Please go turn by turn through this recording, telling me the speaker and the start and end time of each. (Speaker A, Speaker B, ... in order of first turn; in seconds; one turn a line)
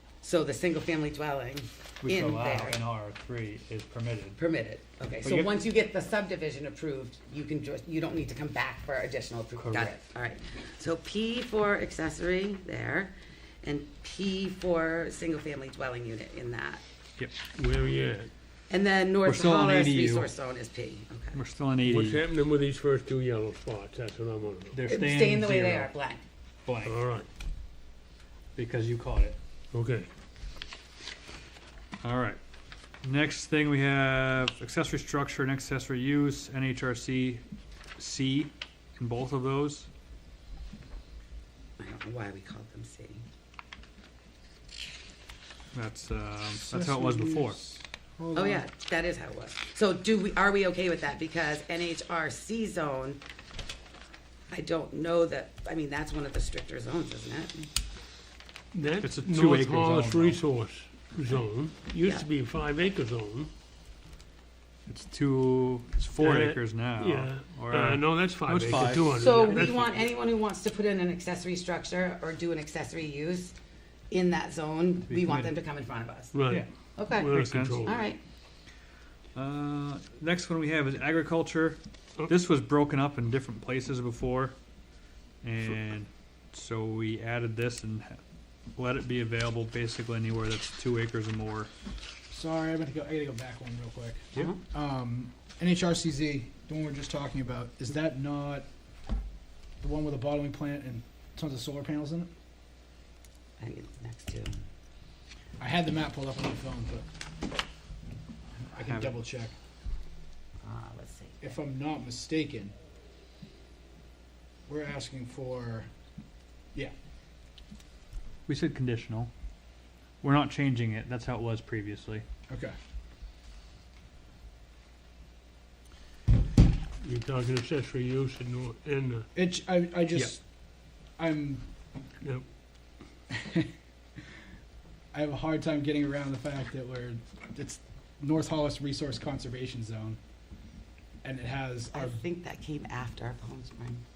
Speaker A: 0.2-2.8
Speaker B: 2.0-4.4
Speaker A: 4.4-16.8
Speaker B: 5.2-5.5
Speaker B: 9.6-10.0
Speaker C: 17.5-18.3
Speaker A: 18.7-21.4
Speaker B: 19.2-20.3
Speaker B: 21.3-22.2
Speaker C: 21.8-24.8
Speaker B: 24.7-25.9
Speaker A: 24.9-26.2
Speaker B: 26.7-27.0
Speaker C: 26.8-27.3
Speaker B: 28.6-29.4
Speaker C: 29.7-30.1
Speaker B: 32.0-32.4
Speaker B: 33.0-37.4
Speaker B: 38.0-39.9
Speaker A: 41.8-43.2
Speaker B: 45.7-47.6
Speaker D: 46.5-48.7
Speaker A: 48.3-53.2
Speaker A: 54.5-57.7
Speaker C: 58.7-63.5
Speaker B: 59.0-60.4
Speaker B: 64.9-70.0
Speaker C: 66.2-70.0
Speaker A: 68.8-73.6
Speaker A: 74.1-76.4
Speaker B: 75.1-75.5
Speaker C: 76.3-78.0
Speaker A: 77.0-78.2
Speaker B: 77.2-77.9
Speaker B: 79.3-84.6
Speaker B: 85.4-88.2
Speaker B: 88.8-91.7
Speaker D: 92.3-98.7
Speaker D: 99.8-102.3
Speaker A: 103.6-104.7
Speaker D: 105.6-107.1
Speaker D: 108.7-109.5
Speaker B: 108.8-109.1
Speaker A: 110.6-111.6
Speaker D: 111.4-112.7
Speaker D: 114.7-115.9
Speaker B: 118.5-119.3
Speaker B: 120.2-122.2
Speaker D: 122.5-122.8
Speaker C: 127.0-129.3
Speaker D: 129.3-130.4
Speaker D: 131.2-131.7
Speaker D: 133.3-133.7
Speaker D: 135.1-140.2
Speaker D: 141.2-142.2
Speaker A: 141.9-144.0